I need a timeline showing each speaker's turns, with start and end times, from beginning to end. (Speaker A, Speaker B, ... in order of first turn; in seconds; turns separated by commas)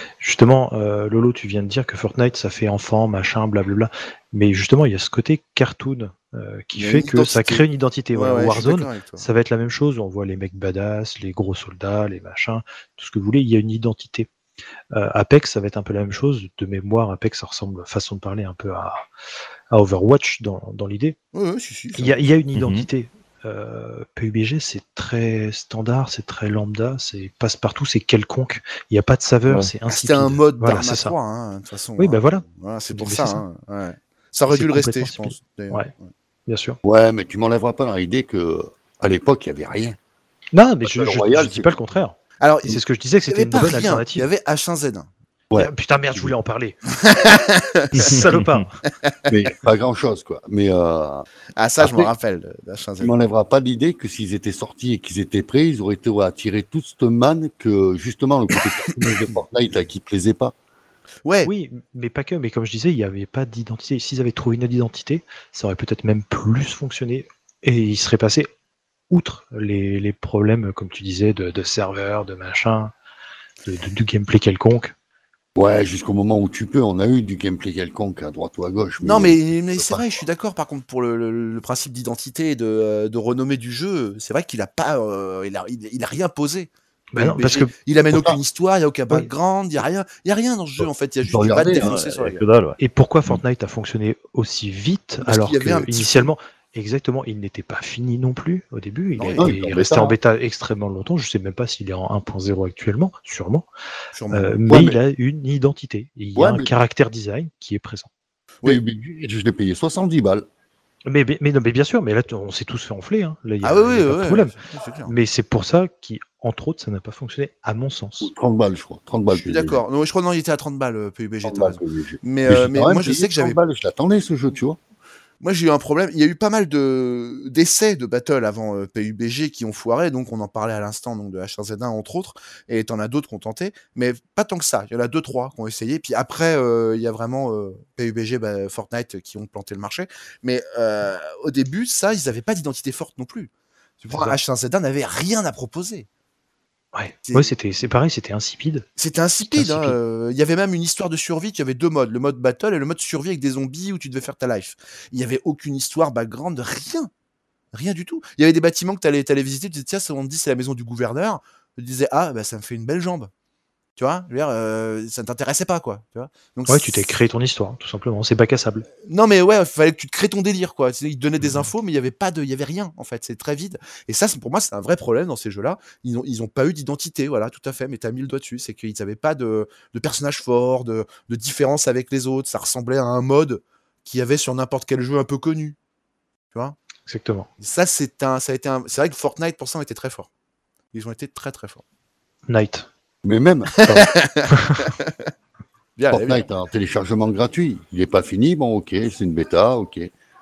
Speaker A: 0.2-14.3, Speaker B: 6.7-9.2, Speaker A: 14.9-19.1, Speaker A: 19.7-21.2, Speaker B: 21.3-22.2, Speaker A: 21.9-31.1, Speaker C: 22.6-22.9, Speaker B: 29.9-36.1, Speaker A: 32.0-33.4, Speaker A: 34.5-35.9, Speaker A: 36.5-36.8, Speaker D: 36.8-40.0, Speaker A: 40.5-44.3, Speaker D: 40.8-41.8, Speaker B: 42.4-45.1, Speaker D: 45.5-46.2, Speaker A: 45.5-46.8, Speaker B: 46.9-48.1, Speaker A: 47.9-48.7, Speaker C: 48.0-48.6, Speaker D: 49.2-51.2, Speaker B: 51.6-53.1, Speaker D: 51.8-52.1, Speaker D: 53.0-60.5, Speaker B: 61.2-61.5, Speaker A: 61.4-68.5, Speaker A: 69.1-72.9, Speaker A: 73.7-74.9, Speaker D: 75.5-80.2, Speaker B: 79.0-92.4, Speaker A: 87.1-87.7, Speaker D: 88.1-88.4, Speaker D: 91.2-92.0, Speaker C: 91.8-93.4, Speaker A: 92.8-103.7, Speaker B: 95.2-96.3, Speaker B: 99.2-99.5, Speaker D: 99.3-100.2, Speaker B: 104.1-104.6, Speaker A: 104.3-108.1, Speaker D: 104.7-105.0, Speaker D: 106.3-106.7, Speaker D: 108.6-110.5, Speaker A: 111.1-114.5, Speaker B: 113.6-115.1, Speaker A: 115.0-118.3, Speaker D: 118.2-119.8, Speaker B: 119.3-123.6, Speaker D: 121.4-124.8, Speaker B: 125.4-146.1, Speaker A: 144.1-144.4, Speaker A: 146.9-148.8, Speaker B: 147.2-147.5, Speaker B: 149.0-157.1, Speaker A: 149.5-150.0, Speaker B: 157.7-163.3, Speaker B: 164.0-167.0, Speaker A: 166.7-168.8, Speaker B: 169.0-185.8, Speaker A: 187.1-187.5, Speaker B: 187.6-190.3, Speaker B: 190.9-191.8, Speaker A: 192.5-192.9, Speaker D: 193.2-194.0, Speaker B: 193.8-195.3, Speaker A: 194.6-194.9, Speaker B: 196.0-196.4, Speaker D: 196.1-200.1